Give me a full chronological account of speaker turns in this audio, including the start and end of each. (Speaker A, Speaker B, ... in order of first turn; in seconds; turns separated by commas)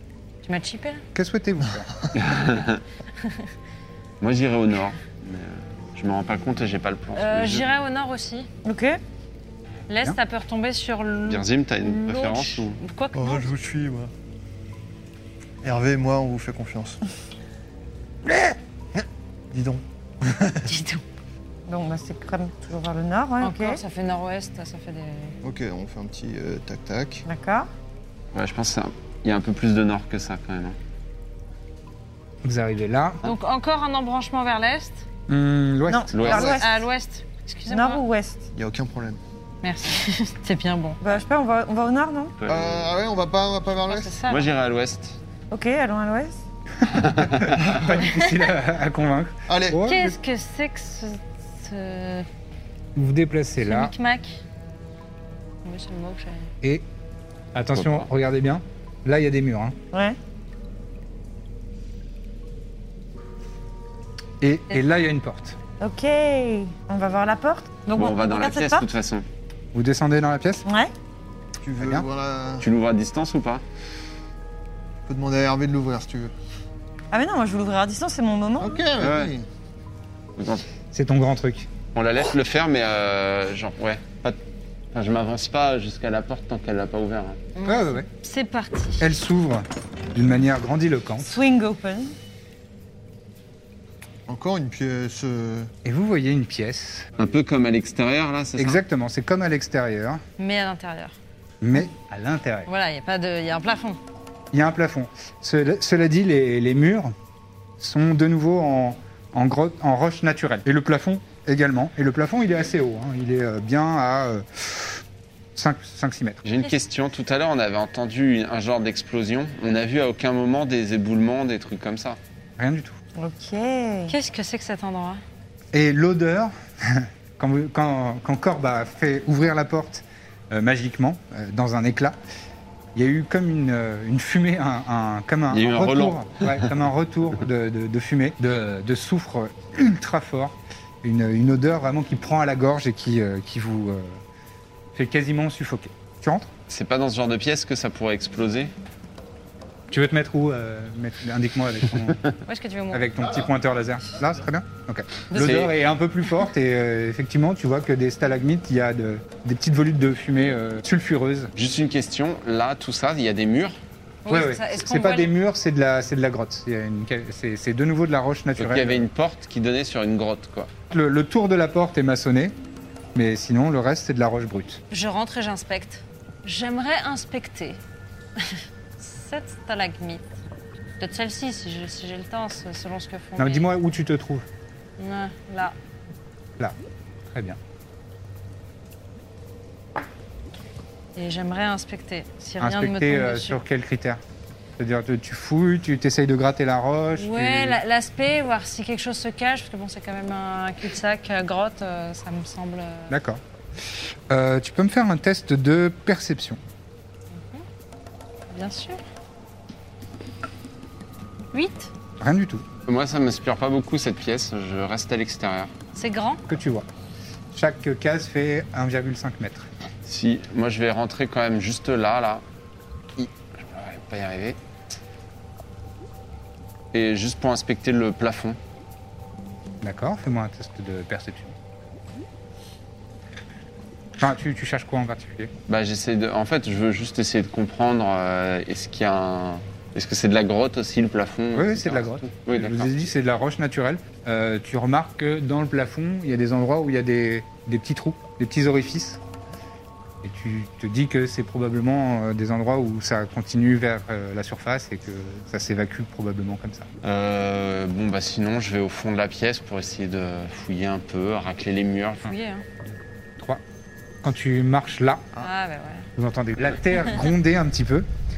Speaker A: 0.4-1.0, Speaker B: 1.1-1.9, Speaker C: 2.1-2.8, Speaker C: 4.2-7.7, Speaker A: 7.2-8.5, Speaker D: 8.6-9.0, Speaker A: 9.9-13.5, Speaker C: 11.3-12.8, Speaker E: 13.1-14.1, Speaker E: 15.6-17.0, Speaker E: 18.3-20.7, Speaker A: 20.6-21.0, Speaker D: 21.7-23.8, Speaker A: 23.4-25.3, Speaker E: 25.4-27.2, Speaker D: 27.3-27.7, Speaker C: 28.3-30.8, Speaker B: 32.4-33.2, Speaker A: 33.2-35.0, Speaker B: 35.3-36.6, Speaker D: 35.9-36.8, Speaker C: 36.1-36.6, Speaker A: 36.2-38.0, Speaker D: 37.7-38.5, Speaker E: 38.5-39.2, Speaker A: 39.6-41.0, Speaker D: 41.0-42.4, Speaker C: 42.4-43.0, Speaker E: 42.5-44.2, Speaker A: 43.9-44.4, Speaker C: 44.3-45.2, Speaker D: 45.5-46.4, Speaker C: 46.9-47.5, Speaker B: 47.0-50.2, Speaker E: 49.5-49.8, Speaker A: 49.8-52.3, Speaker B: 52.9-53.9, Speaker A: 53.6-54.4, Speaker A: 55.6-56.5, Speaker B: 57.5-59.8, Speaker C: 57.7-58.1, Speaker D: 59.9-60.2, Speaker B: 64.4-65.5, Speaker D: 65.8-68.8, Speaker C: 67.9-69.2, Speaker B: 69.7-70.7, Speaker D: 70.7-70.9, Speaker E: 71.6-72.7, Speaker B: 71.8-72.0, Speaker C: 72.6-73.6, Speaker E: 75.1-76.3, Speaker D: 77.1-78.8, Speaker E: 78.6-79.4, Speaker C: 79.0-79.3, Speaker C: 80.4-80.7, Speaker B: 80.9-81.7, Speaker C: 81.9-84.4, Speaker C: 84.9-87.4, Speaker A: 87.5-89.1, Speaker B: 87.7-88.1, Speaker B: 89.0-91.4, Speaker D: 91.2-92.1, Speaker E: 94.3-95.7, Speaker B: 95.8-97.1, Speaker C: 97.2-98.8, Speaker B: 98.6-100.2, Speaker A: 100.4-101.2, Speaker B: 101.6-102.7, Speaker A: 102.7-104.0, Speaker B: 104.5-107.1, Speaker B: 107.8-115.0, Speaker B: 115.5-116.4, Speaker C: 116.4-122.2, Speaker B: 122.6-123.0, Speaker D: 123.2-124.1, Speaker A: 124.1-125.2, Speaker B: 125.7-132.2, Speaker B: 132.9-144.2, Speaker C: 135.5-136.7, Speaker B: 144.9-146.5, Speaker C: 146.7-148.7, Speaker B: 149.9-152.2, Speaker A: 152.5-153.1, Speaker B: 152.9-161.5, Speaker E: 153.2-153.5, Speaker C: 155.3-155.7, Speaker C: 161.6-163.8, Speaker A: 164.2-165.3, Speaker B: 164.2-169.1, Speaker C: 168.6-170.7, Speaker B: 170.9-172.5, Speaker B: 173.1-174.8, Speaker A: 174.9-177.8, Speaker A: 178.4-180.3, Speaker A: 181.0-183.7, Speaker B: 183.4-184.5, Speaker A: 185.0-185.7, Speaker B: 187.3-187.6, Speaker A: 191.2-193.6, Speaker B: 192.6-194.2, Speaker B: 194.8-197.8, Speaker A: 197.2-203.2, Speaker B: 203.1-203.4, Speaker B: 204.3-206.6, Speaker A: 207.3-207.6, Speaker A: 208.5-209.0, Speaker A: 211.5-211.9, Speaker B: 212.2-212.7, Speaker C: 212.8-215.7, Speaker A: 215.9-216.4, Speaker B: 216.5-216.9, Speaker B: 217.5-219.7, Speaker C: 220.1-222.4, Speaker C: 223.2-224.6, Speaker C: 226.9-228.6, Speaker B: 229.8-231.6, Speaker B: 234.2-235.5, Speaker C: 235.7-242.9, Speaker B: 241.5-249.2, Speaker B: 250.2-256.9, Speaker C: 257.0-262.3, Speaker A: 262.2-262.6, Speaker B: 262.9-263.6, Speaker B: 264.2-265.3, Speaker A: 265.4-266.1, Speaker B: 266.2-268.1